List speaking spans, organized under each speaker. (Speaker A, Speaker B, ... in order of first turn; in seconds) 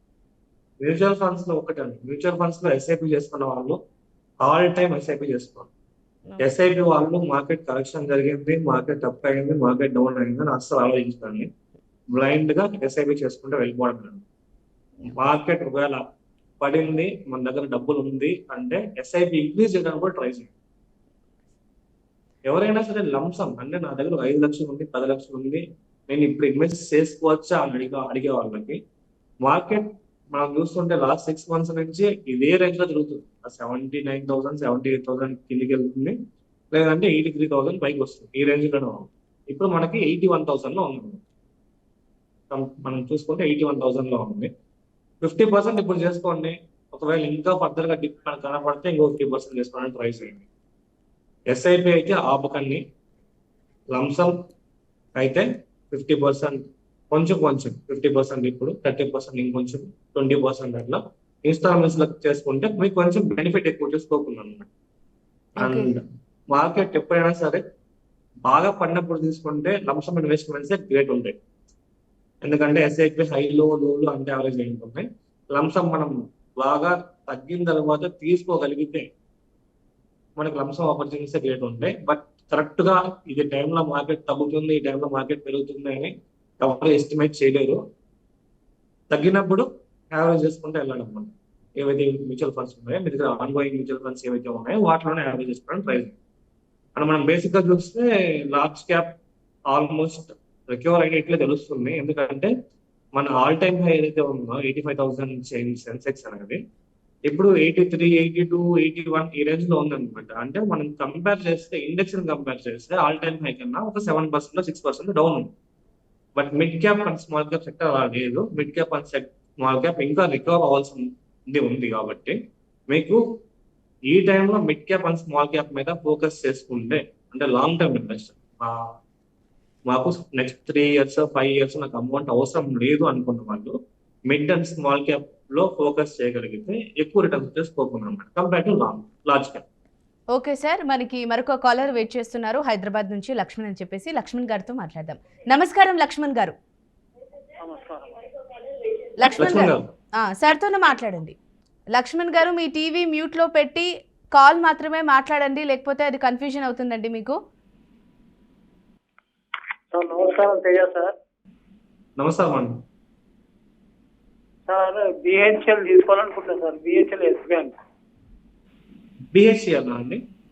Speaker A: 0.8-3.8, 4.4-5.7, 6.4-11.5, 12.1-14.2, 15.1-16.0, 16.6-20.5, 22.5-28.8, 29.4-36.1, 36.7-41.2, 42.5-44.5, 45.2-50.4, 51.5-52.8, 53.9-54.3, 55.2-56.6, 57.1-64.7, 65.6-66.0, 66.5-67.6, 68.5-71.3, 72.4-79.1, 80.4-87.8, 89.1-96.1, 97.0-99.1, 99.7-102.5, 103.2-106.6, 107.3-115.5, 116.4-122.3, 122.9-123.2, 124.1-128.8, 129.9-133.7, 134.3-139.6, 149.3-149.9, 162.2-162.7, 169.3-170.2
Speaker B: 65.6-65.9, 140.3-146.5, 149.2-149.7, 150.2-151.3, 151.9-157.4
Speaker C: 147.6-148.3, 159.9-161.2, 164.7-167.7